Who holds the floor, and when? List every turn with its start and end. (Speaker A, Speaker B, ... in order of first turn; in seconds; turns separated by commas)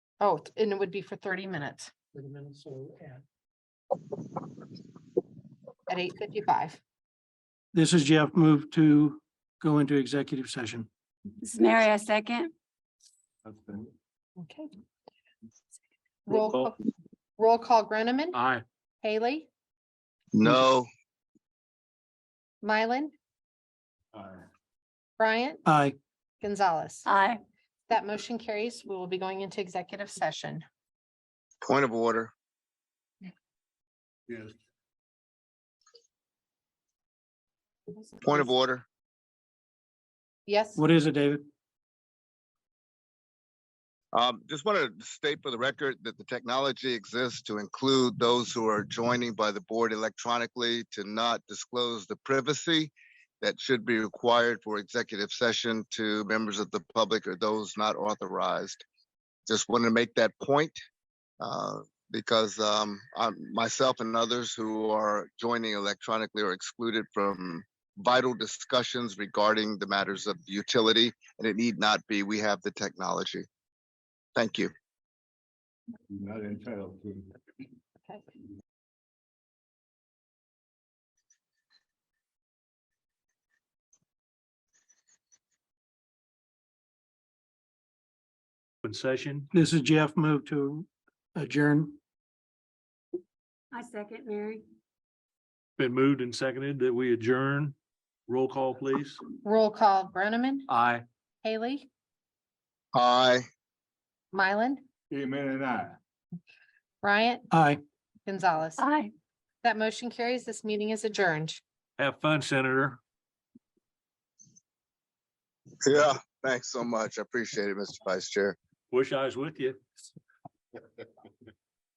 Speaker A: 0.2-1.9, Speaker B: 2.1-3.2, Speaker A: 5.9-6.8, Speaker B: 7.7-10.9, Speaker C: 11.4-12.5, Speaker A: 14.4-14.7, Speaker A: 16.3-16.8, Speaker A: 17.4-18.4, Speaker D: 18.3-18.6, Speaker A: 19.0-19.5, Speaker E: 20.3-20.9, Speaker A: 22.6-23.1, Speaker A: 25.2-25.6, Speaker B: 25.7-26.0, Speaker A: 26.4-27.1, Speaker C: 27.1-27.4, Speaker A: 27.9-30.6, Speaker E: 31.6-32.3, Speaker E: 38.2-38.9, Speaker A: 40.5-40.9, Speaker B: 40.8-41.5, Speaker E: 44.1-58.8, Speaker E: 59.5-60.8, Speaker E: 61.4-73.5, Speaker E: 74.4-74.7, Speaker F: 76.1-77.3, Speaker D: 88.8-89.5, Speaker B: 89.5-92.0, Speaker C: 93.7-94.7, Speaker D: 95.8-97.8, Speaker D: 98.3-99.2, Speaker A: 99.4-100.7, Speaker D: 100.7-101.0, Speaker A: 101.4-101.9, Speaker E: 102.9-103.4, Speaker A: 104.3-104.8, Speaker F: 105.1-106.0, Speaker A: 107.0-107.5, Speaker B: 107.5-107.8, Speaker A: 108.3-108.8, Speaker C: 108.8-109.1, Speaker A: 109.6-111.6, Speaker D: 112.0-113.0, Speaker E: 115.8-118.6, Speaker D: 118.9-119.8